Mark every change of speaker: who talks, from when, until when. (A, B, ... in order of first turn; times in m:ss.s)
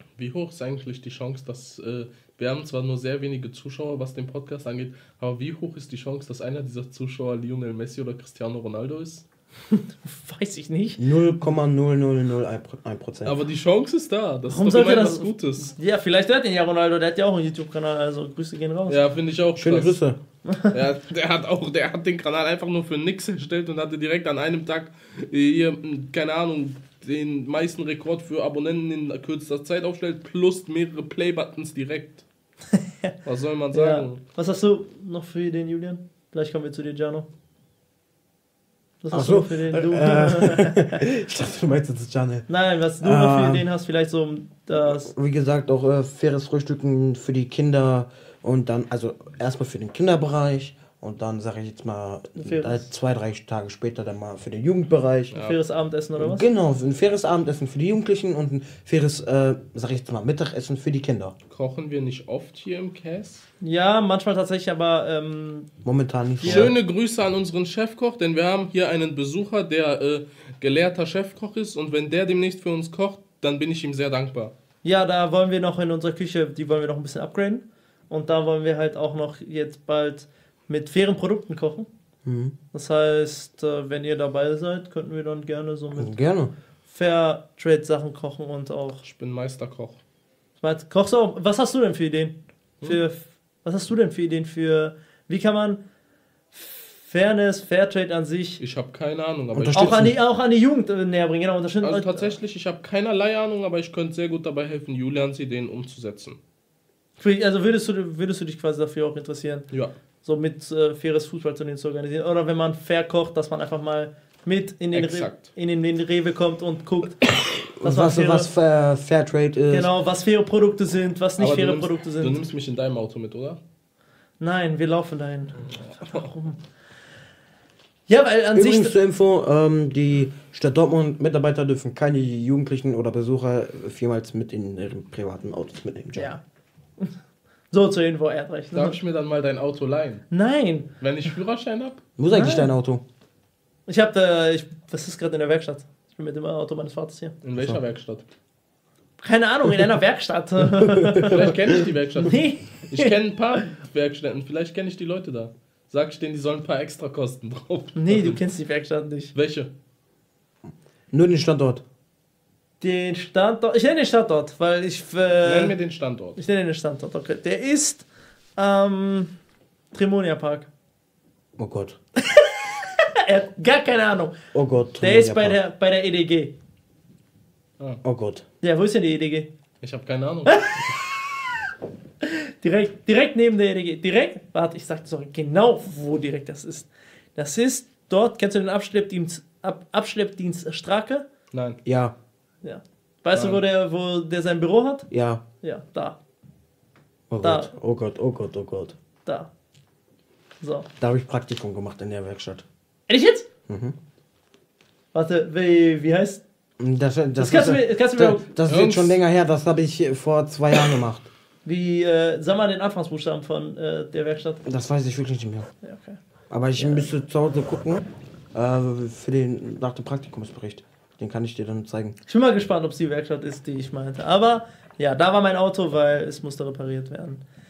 0:00.2-0:09.2 A
0:09.7-0:11.0 B
0:11.0-0:13.4 C
0:13.2-0:15.7 A
0:14.5-0:19.0 B
0:18.9-0:20.0 A
0:19.6-0:20.2 C
0:20.7-0:32.3 A
0:32.7-0:33.1 B
0:33.2-0:34.2 A
0:33.7-0:37.3 B
0:39.0-0:41.0 B
0:39.1-0:42.5 C
0:42.5-0:45.1 B
0:43.0-0:43.7 C
0:44.9-0:55.3 C
0:52.4-0:52.9 B
0:55.3-0:55.6 A
0:55.4-0:56.5 B
0:56.2-1:01.4 C
1:01.5-1:03.4 A
1:03.6-1:05.7 B
1:05.8-1:06.7 C
1:06.4-1:14.5 A
1:14.8-1:21.9 B
1:22.2-1:22.6 C
1:22.7-1:26.2 B
1:25.9-1:26.5 C
1:26.9-1:29.0 B
1:29.0-1:30.0 A
1:30.6-1:35.8 B
1:36.5-1:38.6 B
1:38.6-1:40.1 A
1:39.5-1:40.2 C
1:39.7-1:42.4 B
1:41.8-1:46.4 A
1:47.2-1:49.7 B
1:50.2-1:58.5 B
1:54.9-1:55.5 A
1:57.2-1:59.9 C
1:59.7-2:02.4 B
2:01.4-2:03.6 A
2:04.4-2:06.6 B
2:05.6-2:06.3 A
2:08.1-2:09.0 B
2:08.5-2:16.4 C
2:16.2-2:16.4 B
2:17.7-2:19.0 B
2:18.7-2:20.3 A
2:20.3-2:20.9 B
2:21.0-2:22.0 A
2:22.2-2:23.0 C
2:22.3-2:22.7 B
2:23.9-2:27.4 B
2:27.4-2:28.3 A
2:29.2-2:33.2 B
2:30.8-2:31.5 C
2:31.3-2:38.4 A
2:38.0-2:39.3 B
2:39.3-2:39.7 A
2:41.1-2:41.8 C
2:42.8-2:45.8 B
2:45.4-2:46.4 A
2:46.4-2:49.3 B
2:49.9-2:50.7 B
2:51.6-2:52.0 C
2:52.2-2:54.3 B
2:54.5-2:55.6 C
2:55.0-2:56.6 B
2:58.0-2:58.4 C
2:58.6-2:59.5 B
2:59.8-3:00.9 A
3:00.5-3:01.1 B
3:02.2-3:11.2 B
3:11.5-3:11.8 A
3:11.8-3:12.2 C
3:12.6-3:15.1 B
3:13.3-3:13.6 A
3:15.1-3:15.4 C
3:15.6-3:16.2 B
3:17.3-3:19.0 C
3:17.4-3:17.7 B
3:19.2-3:19.5 B
3:20.6-3:20.9 B
3:21.0-3:22.6 C
3:23.1-3:23.5 B
3:23.7-3:24.0 C
3:25.1-3:26.4 B
3:26.8-3:31.3 C
3:27.4-3:28.5 B
3:28.7-3:29.2 A
3:31.6-3:34.6 B
3:34.6-3:35.7 C
3:35.8-3:36.2 B
3:36.5-3:38.0 C
3:36.8-3:37.1 B
3:38.5-3:42.2 C
3:42.3-3:47.4 B